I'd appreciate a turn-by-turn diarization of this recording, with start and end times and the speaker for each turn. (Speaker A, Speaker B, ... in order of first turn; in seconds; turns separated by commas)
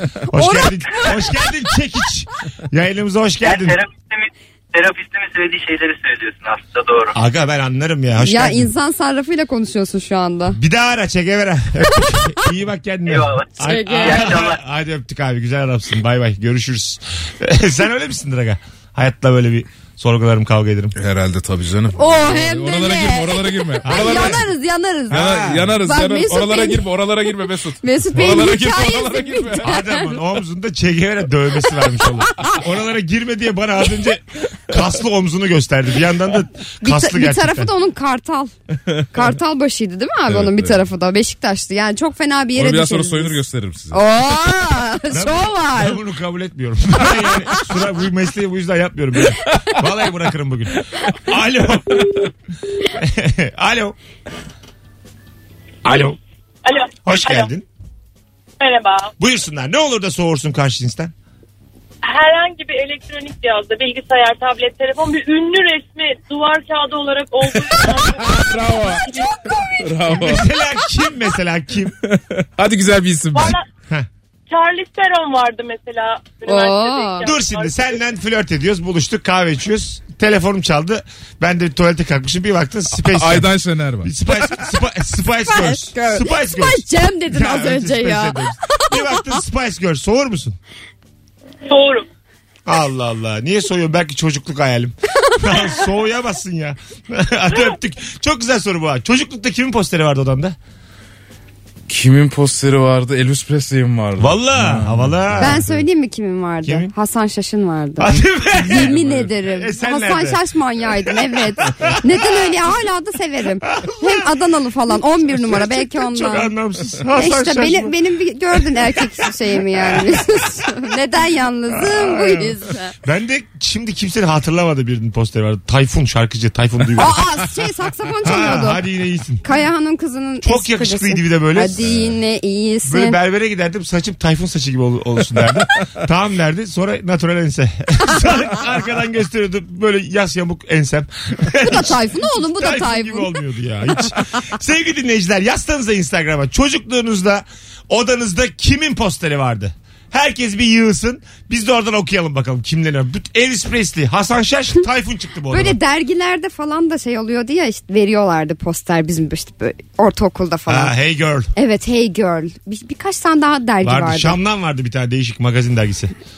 Speaker A: 0.3-1.3, Speaker B: 0.3-3.8, Speaker C: 3.4-7.2, Speaker B: 7.1-8.7, Speaker A: 8.2-10.6, Speaker B: 10.5-21.0, Speaker C: 13.1-14.6, Speaker A: 13.6-14.3, Speaker D: 21.0-24.4, Speaker A: 22.0-26.8, Speaker B: 23.8-24.4, Speaker B: 25.1-25.8, Speaker D: 25.1-29.8, Speaker A: 27.8-30.0, Speaker B: 29.6-37.7, Speaker A: 36.8-38.5, Speaker A: 39.1-43.4, Speaker D: 40.3-40.8, Speaker D: 42.5-44.0, Speaker A: 43.9-46.0, Speaker B: 45.1-52.2, Speaker B: 52.9-54.0, Speaker B: 55.9-56.2, Speaker E: 56.6-57.5, Speaker B: 57.0-57.7, Speaker E: 58.6-59.1, Speaker B: 59.2-61.1, Speaker E: 62.0-69.8, Speaker D: 67.7-69.2, Speaker D: 69.8-70.5, Speaker B: 70.1-72.0, Speaker D: 72.0-73.6, Speaker E: 73.3-73.7, Speaker E: 74.5-77.8, Speaker A: 76.5-77.3, Speaker B: 77.2-90.6, Speaker D: 82.9-84.5, Speaker A: 85.4-89.4, Speaker E: 91.7-92.1, Speaker B: 92.7-100.6, Speaker D: 101.9-105.7, Speaker B: 104.2-105.7, Speaker A: 105.4-116.5, Speaker B: 106.6-106.9, Speaker B: 108.0-110.4, Speaker D: 108.8-109.3, Speaker B: 111.6-112.3, Speaker B: 113.8-114.3, Speaker B: 115.4-118.0, Speaker A: 117.1-123.0, Speaker B: 118.7-119.0, Speaker B: 119.7-120.4, Speaker B: 121.7-127.4, Speaker A: 127.0-128.8, Speaker B: 128.2-129.4, Speaker A: 129.4-133.2, Speaker B: 130.4-131.9, Speaker B: 132.9-155.8, Speaker A: 141.6-143.4, Speaker A: 155.5-160.9, Speaker B: 160.7-161.5, Speaker A: 161.6-164.4, Speaker B: 163.8-166.1